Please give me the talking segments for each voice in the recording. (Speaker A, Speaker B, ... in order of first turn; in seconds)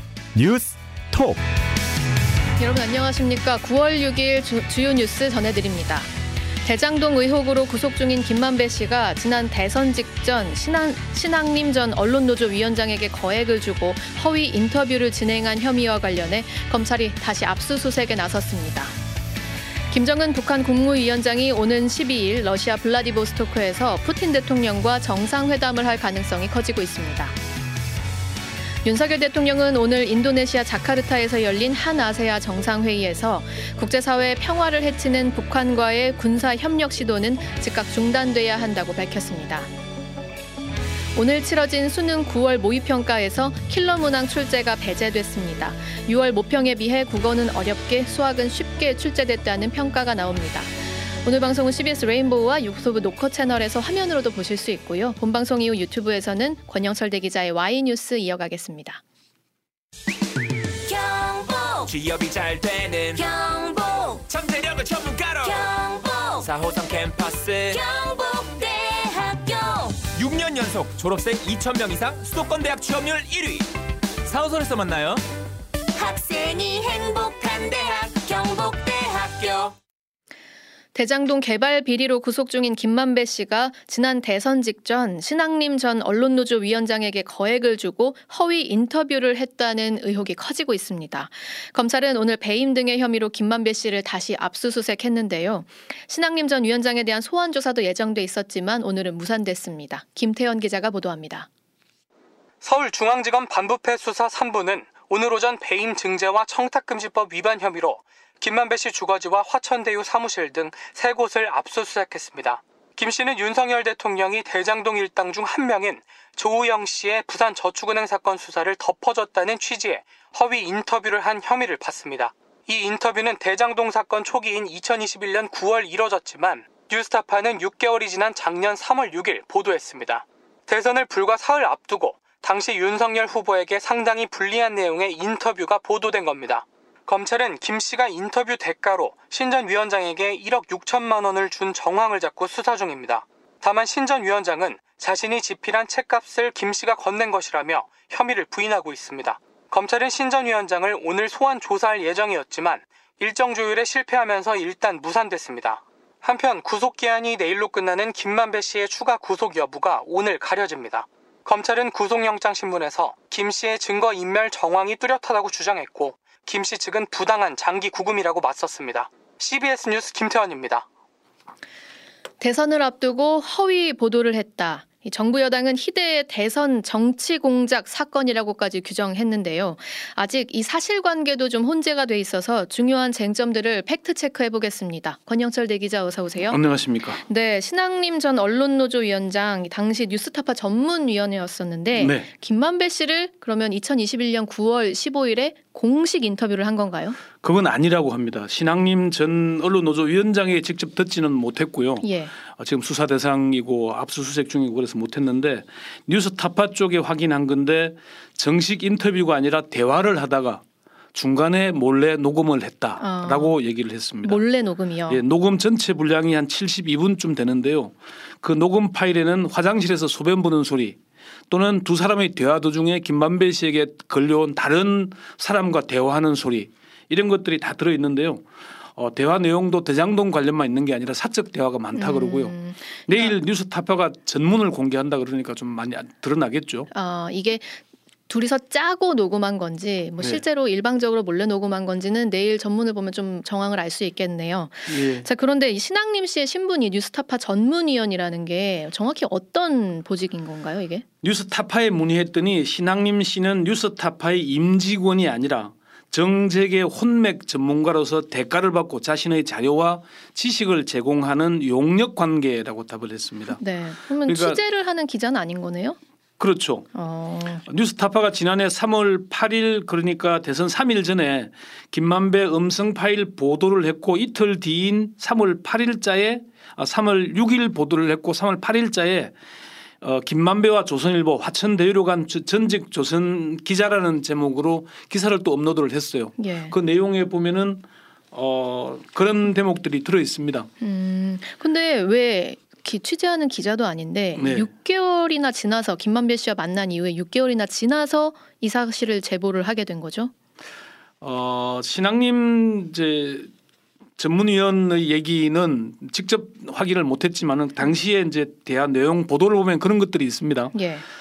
Speaker A: 0.3-1.4, 61.9-63.2, 64.3-65.6, 66.4-67.8, 70.2-73.7, 74.3-75.2
Speaker B: 2.6-6.1, 6.7-18.9, 19.9-27.4, 28.8-39.7, 41.1-59.0, 81.0-101.5, 172.4-186.6, 187.2-197.2, 202.0-202.3, 213.0-213.6, 214.2-215.2, 231.9-233.3, 236.9-251.0, 263.5-266.0, 266.9-267.6, 286.4-286.8, 290.8-300.3, 310.7-311.0
Speaker C: 60.9-61.9, 63.1-64.2, 65.4-66.5, 67.7-70.0, 76.0-79.8
Speaker D: 102.6-170.9
Speaker E: 186.5-187.2, 191.9-192.3, 197.4-210.6, 211.1-214.4, 215.1-221.0, 221.5-228.4, 229.0-232.6, 233.1-236.9, 244.9-245.3, 251.2-263.6, 264.3-264.6, 266.4-266.9, 267.7-279.3, 280.0-290.7, 294.4-294.7, 301.2-303.5, 304.2-310.7